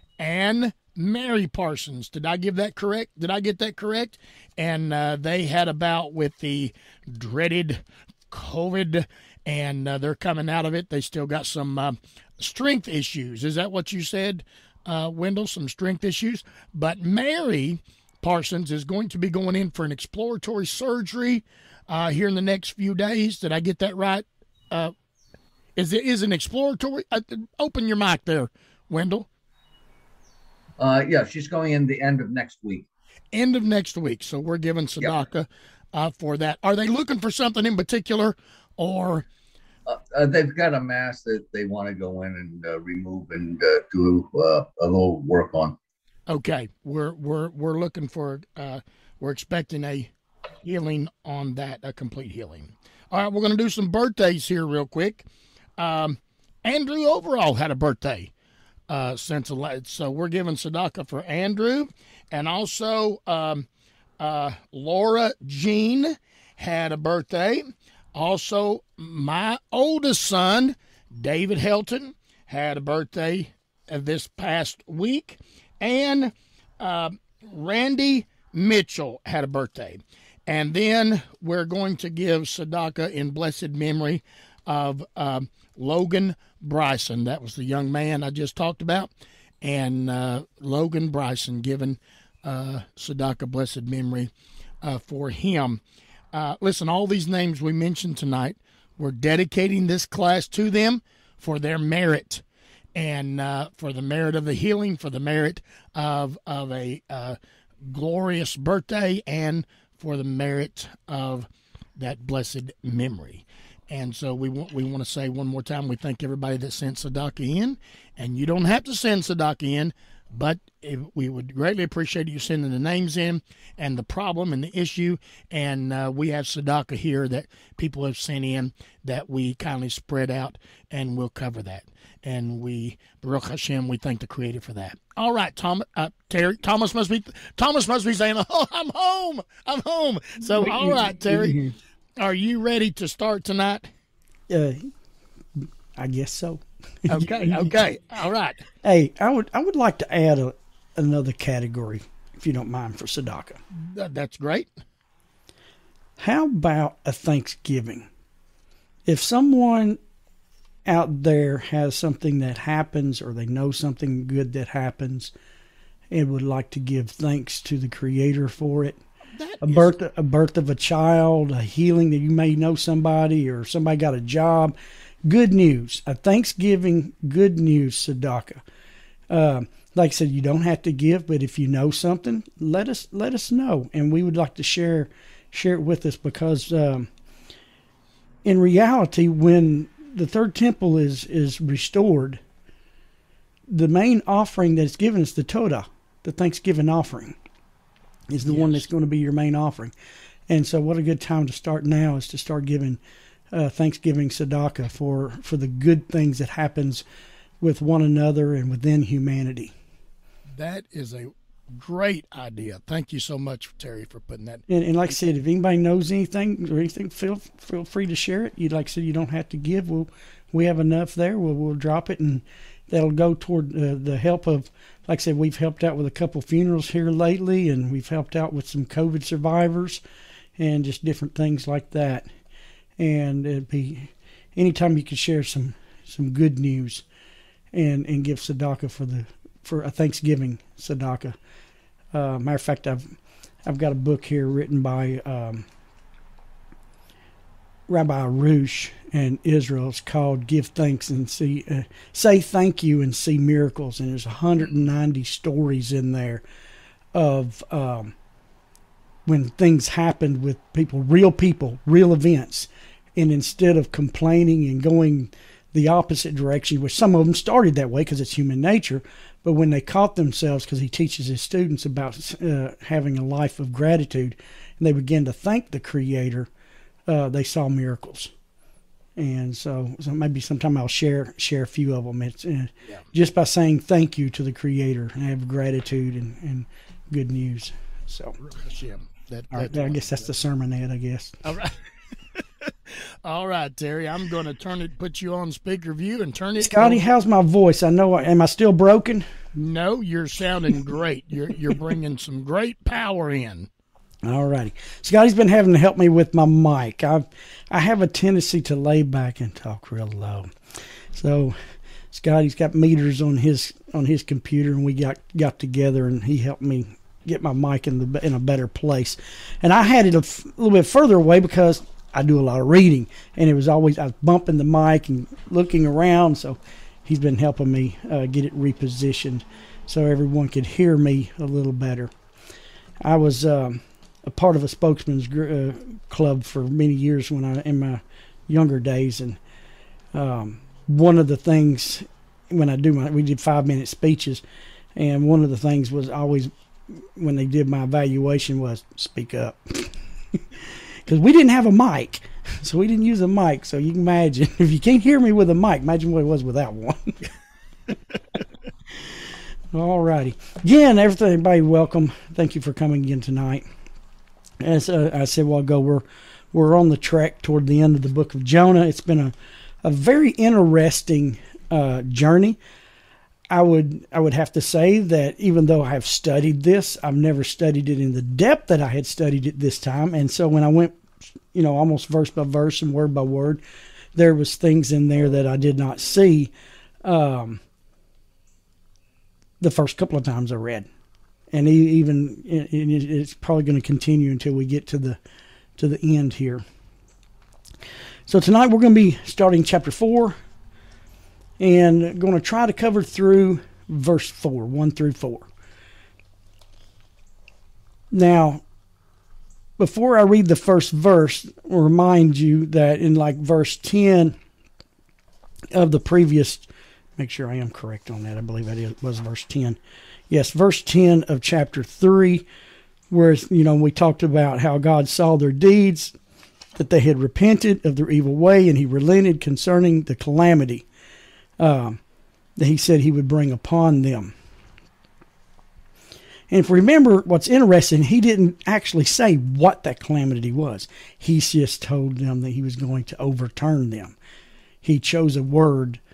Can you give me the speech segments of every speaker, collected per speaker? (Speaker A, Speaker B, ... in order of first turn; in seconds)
Speaker A: 0.2-24.9, 25.8-29.3, 33.3-39.3, 46.3-50.1, 50.6-55.3, 55.8-58.3, 58.9-63.7, 64.2-89.1, 89.6-94.3, 94.8-141.6, 142.2-143.9, 147.1-148.6, 153.7-154.7, 169.3-169.9, 198.4-198.8, 210.5-214.6, 288.4-290.2, 291.4-297.0, 299.6-303.7
Speaker B: 30.8-32.9, 39.9-45.8
Speaker C: 140.6-141.7, 144.5-144.9, 145.6-147.8, 148.8-153.6, 156.2-158.1, 159.1-160.0, 160.9-165.3, 166.1-169.0, 169.6-178.6, 179.3-187.1, 188.4-192.4, 193.7-197.4, 198.3-199.9, 200.5-203.0, 203.5-207.0, 207.6-209.7, 214.7-230.0, 230.6-232.3, 233.0-237.0, 237.7-241.4, 242.1-245.7, 247.9-256.4, 257.1-258.1, 259.3-276.5, 277.1-278.3, 279.2-288.4, 289.5-291.4, 296.6-299.3, 304.2-310.5, 311.1-311.6, 312.1-332.1, 333.0-339.4, 340.1-344.4, 345.0-346.5, 347.2-349.9, 351.1-357.2, 359.7-363.6, 364.6-372.6, 373.5-381.0, 381.5-383.6, 384.2-386.5, 387.0-387.6, 389.6-390.9, 391.5-395.2, 395.8-396.6, 398.3-400.4, 401.6-405.5, 408.1-408.6, 409.8-414.4, 415.7-419.8, 420.3-422.5, 423.1-426.1, 426.8-430.9, 431.6-432.0, 432.6-434.3, 436.5-444.2, 444.8-446.0